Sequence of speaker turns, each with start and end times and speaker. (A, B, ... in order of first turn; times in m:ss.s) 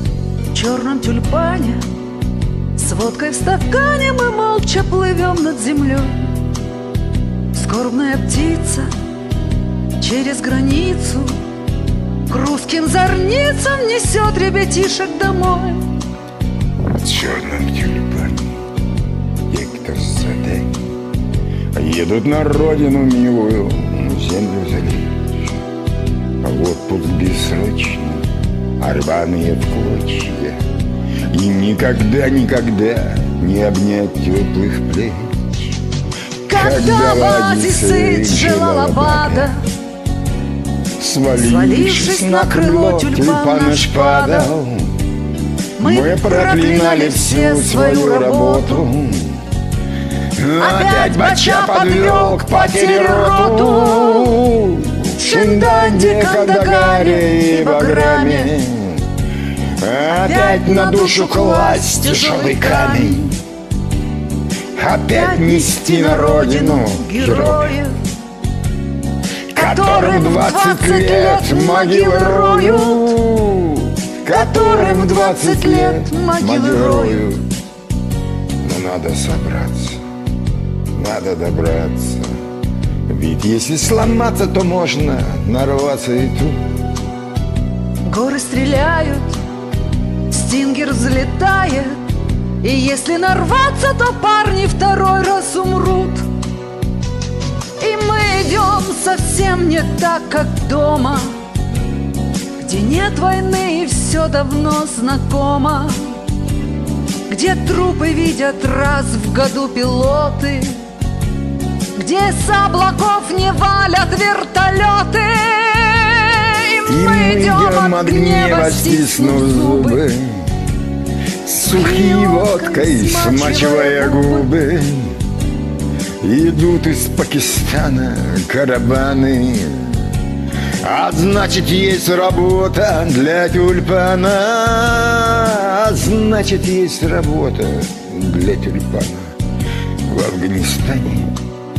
0:00.5-0:01.9 A
0:02.8-0:06.4 A
0:07.5-0:08.9 A
0:10.0-0:11.4 A
0:12.3-0:16.0 A
0:16.9-0:18.6 B
0:19.5-0:20.8 B
0:21.7-0:25.5 B
0:26.4-0:28.3 B
0:28.8-0:30.6 B
0:31.3-0:35.7 B
0:36.4-0:39.6 A
0:36.5-0:39.5 B
0:41.0-0:45.0 B
0:41.3-0:44.5 A
0:45.8-0:48.8 A
0:45.8-0:49.4 B
0:50.4-0:59.0 B
0:50.6-0:54.4 A
0:55.1-0:58.5 A
0:59.8-1:03.3 B
1:00.1-1:03.4 A
1:04.8-1:07.8 B
1:05.1-1:08.0 A
1:09.5-1:13.2 A
1:09.5-1:17.5 B
1:14.3-1:17.3 A
1:18.6-1:20.0 B
1:20.9-1:22.4 B
1:23.1-1:26.6 B
1:28.0-1:29.4 A
1:30.3-1:32.0 A
1:32.6-1:36.3 A
1:37.8-1:41.4 A
1:42.6-1:46.2 A
1:47.3-1:50.9 A
1:52.0-2:00.0 A
1:56.9-2:00.6 B
2:01.4-2:05.2 B
2:01.6-2:04.5 A
2:06.2-2:10.1 B
2:10.8-2:19.3 B
2:20.1-2:21.3 B